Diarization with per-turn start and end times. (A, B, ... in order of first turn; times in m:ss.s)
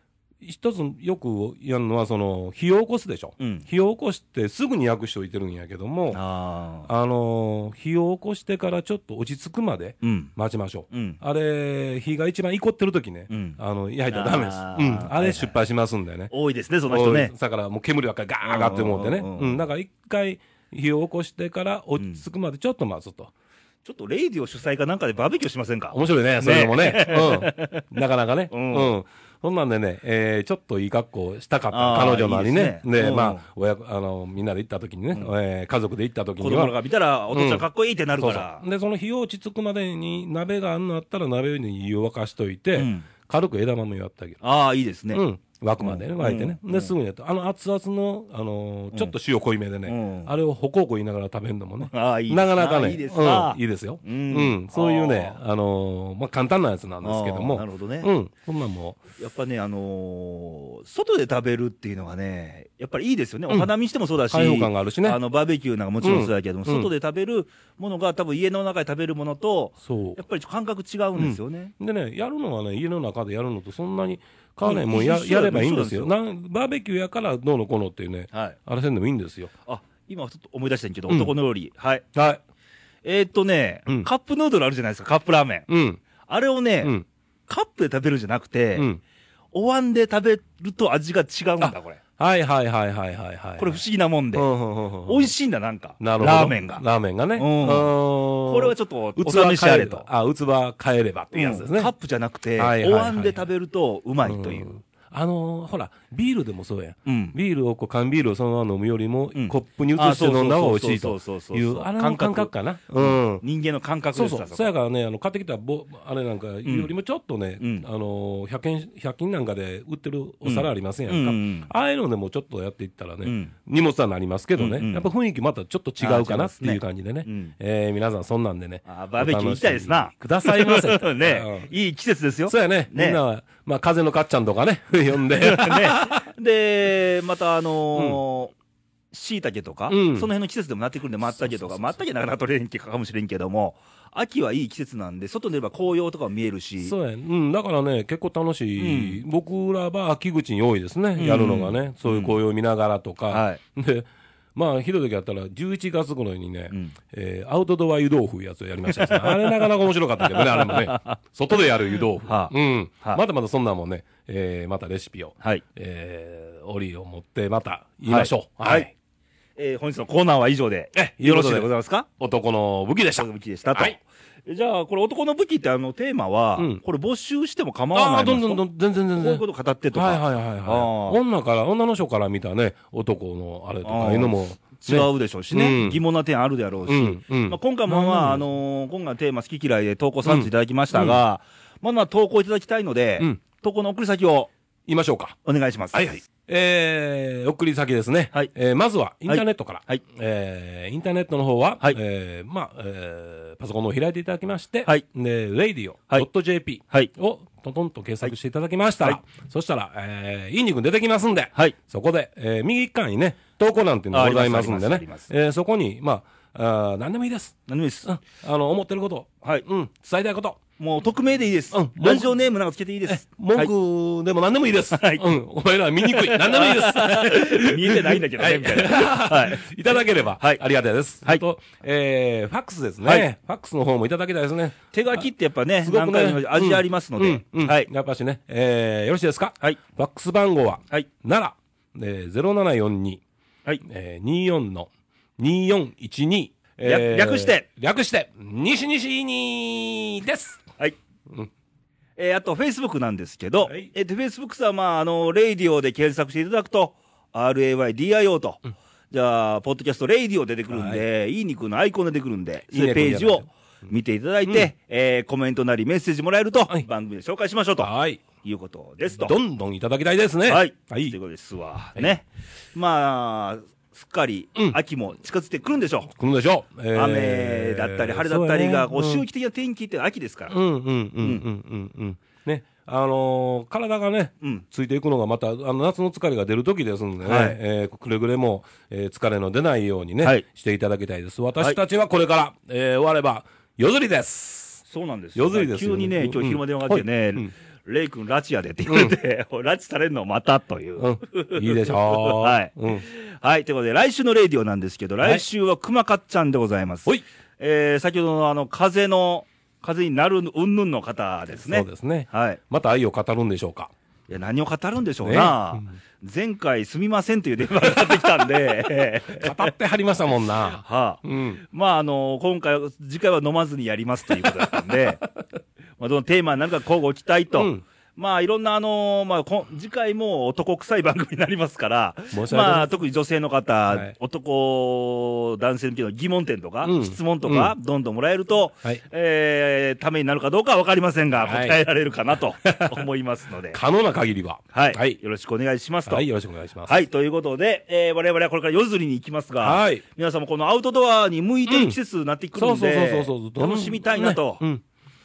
0:00.4-0:06.2 A
0:03.4-0:03.6 B
0:06.1-0:06.9 B
0:06.8-0:16.3 A
0:10.0-0:10.3 B
0:10.9-0:11.2 B
0:13.3-0:15.6 B
0:16.3-0:17.3 B
0:16.9-0:23.3 A
0:18.4-0:19.6 B
0:22.0-0:22.2 B
0:23.8-0:27.9 B
0:25.9-0:36.7 A
0:28.5-0:28.9 B
0:31.7-0:33.4 B
0:36.4-0:38.6 B
0:37.3-0:37.6 A
0:38.2-0:44.4 A
0:42.7-0:43.1 B
0:44.4-0:45.2 B
0:45.1-0:59.0 A
0:45.8-0:46.9 B
0:49.8-0:50.3 B
0:51.8-0:55.4 B
0:57.0-0:58.1 B
0:59.2-1:11.7 B
1:04.3-1:05.2 A
1:06.0-1:06.9 A
1:09.8-1:10.2 A
1:11.2-1:19.5 A
1:14.6-1:16.1 B
1:18.3-1:18.6 B
1:19.7-1:22.0 B
1:21.1-1:21.3 A
1:22.1-1:22.4 A
1:23.0-1:25.7 B
1:25.7-1:26.0 A
1:26.2-1:26.9 B
1:27.5-1:28.9 B
1:28.7-1:29.0 A
1:29.5-1:32.0 B
1:31.6-1:33.8 A
1:33.6-1:34.5 B
1:34.3-1:35.3 A
1:35.0-1:36.8 B
1:36.0-1:41.9 A
1:37.4-1:40.1 B
1:41.3-1:44.8 B
1:42.6-1:43.5 A
1:44.2-1:53.4 A
1:47.0-1:47.4 B
1:49.3-1:54.7 B
1:54.1-2:11.7 A
1:56.6-1:56.9 B
1:57.6-1:57.8 B
2:00.4-2:01.7 B
2:03.2-2:03.5 B
2:04.6-2:05.1 B
2:06.0-2:07.5 B
2:08.8-2:13.2 B
2:12.5-2:16.2 A
2:15.3-2:18.5 B
2:17.9-2:18.2 A
2:19.1-2:26.9 B
2:19.9-2:20.3 A
2:21.2-2:22.0 A
2:26.8-2:48.9 A
2:28.8-2:29.2 B
2:31.2-2:32.4 B
2:33.3-2:33.6 B
2:38.9-2:39.7 B
2:40.2-2:41.2 B
2:42.2-2:43.2 B
2:48.1-2:48.9 B
2:49.6-2:52.1 B
2:50.9-2:54.0 A
2:53.1-2:58.6 B
2:57.9-3:06.0 A
2:59.2-3:01.2 B
3:03.8-3:14.5 B
3:06.8-3:08.4 A
3:10.2-3:11.2 A
3:14.9-3:15.4 A
3:15.4-3:16.1 B
3:15.9-3:40.6 A
3:19.2-3:20.0 B
3:34.1-3:35.3 B
3:37.7-3:38.1 B
3:40.8-3:43.7 B
3:41.7-3:42.4 A
3:43.1-3:55.3 A
3:44.9-3:45.2 B
3:46.0-3:49.7 B
3:54.9-3:57.9 B
3:55.8-4:03.2 A
4:03.8-4:10.6 A
4:06.8-4:07.6 B
4:12.2-4:27.9 B
4:13.6-4:13.9 A
4:20.7-4:21.0 A
4:22.7-4:23.5 A
4:27.8-4:28.2 A
4:28.4-4:29.4 B
4:29.1-4:31.2 A
4:30.5-4:36.1 B
4:36.1-4:39.2 A
4:36.9-4:40.6 B
4:40.5-4:54.8 A
4:47.2-4:47.6 B
4:54.9-5:12.6 B
4:55.4-4:57.5 A
4:58.9-4:59.1 A
5:01.0-5:03.0 A
5:11.6-5:13.9 A
5:14.3-5:19.7 B
5:15.2-5:16.0 A
5:18.0-5:18.2 A
5:19.3-5:21.6 A
5:20.7-5:25.2 B
5:24.4-5:25.4 A
5:26.0-5:43.8 B
5:27.5-5:27.8 A
5:32.3-5:32.9 A
5:36.8-5:37.7 A
5:41.4-5:41.8 A
5:43.7-5:45.2 A
5:44.7-5:46.2 B
5:46.0-5:47.0 A
5:46.8-5:54.6 B
5:49.6-5:50.0 A
5:51.7-5:52.0 A
5:52.6-5:54.8 A